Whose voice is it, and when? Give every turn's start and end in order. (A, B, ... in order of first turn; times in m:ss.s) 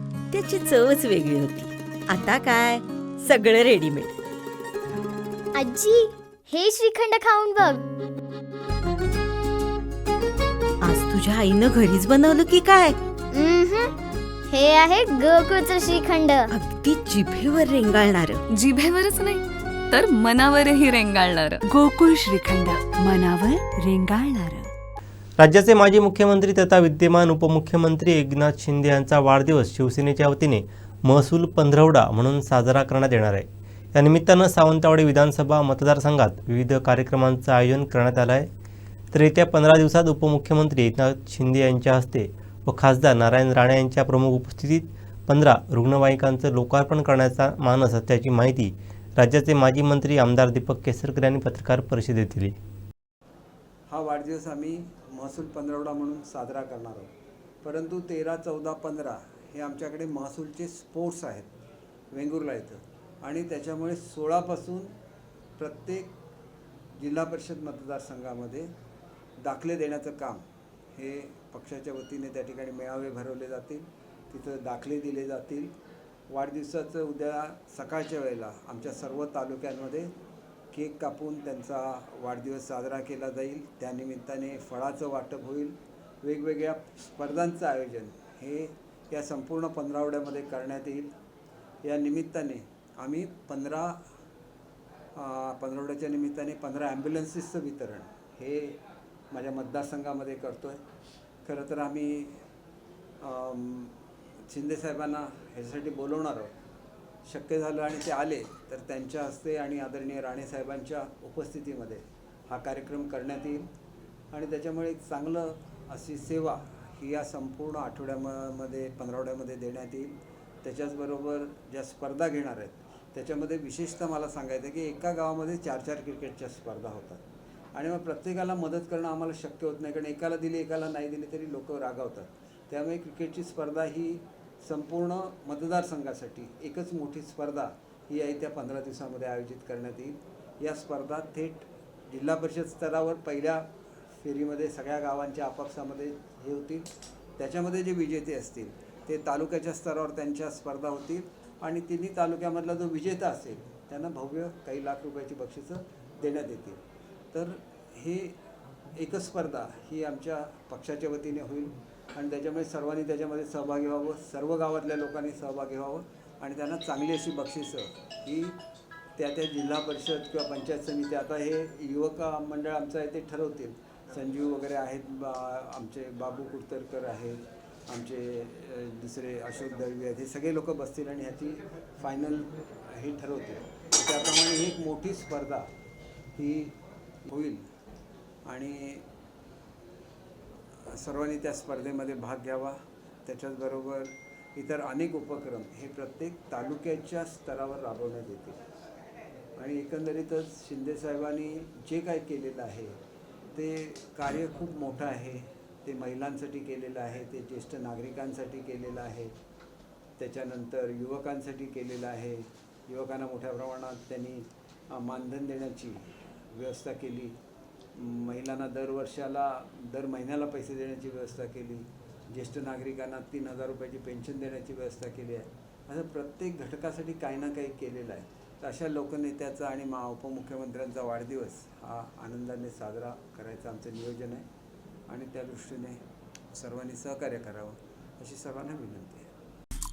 0:00.5-0:01.5 A
0:02.3-0:02.7 A
0:03.6-0:03.9 A
0:05.5-0:07.8 B
0:10.8-0:12.9 A
0:13.3-0:13.9 B
0:14.5-0:16.5 B
0:16.5-0:18.4 A
0:18.5-0:21.6 C
0:21.6-0:24.7 D
0:25.4-0:38.5 E
0:39.1-0:52.5 E
0:53.9-0:57.1 F
0:57.6-1:01.5 F
1:02.1-1:04.9 F
1:05.6-1:06.1 F
1:06.9-1:08.7 F
1:09.4-1:15.7 F
1:16.3-1:20.1 F
1:20.7-1:31.1 F
1:31.8-1:34.0 F
1:35.1-1:38.8 F
1:39.3-1:40.8 F
1:41.4-1:42.4 F
1:43.2-1:44.0 F
1:44.5-1:46.5 F
1:47.2-1:53.7 F
1:54.3-2:07.2 F
2:07.7-2:23.7 F
2:24.2-2:36.8 F
2:37.3-2:38.4 F
2:38.9-2:48.6 F
2:49.2-3:05.7 F
3:06.4-3:07.7 F
3:08.4-3:09.0 F
3:10.8-3:18.6 F
3:19.6-3:23.0 F
3:23.5-3:29.3 F
3:30.2-3:37.3 F
3:38.0-3:54.4 F
3:55.1-3:56.0 F
3:56.5-3:59.3 F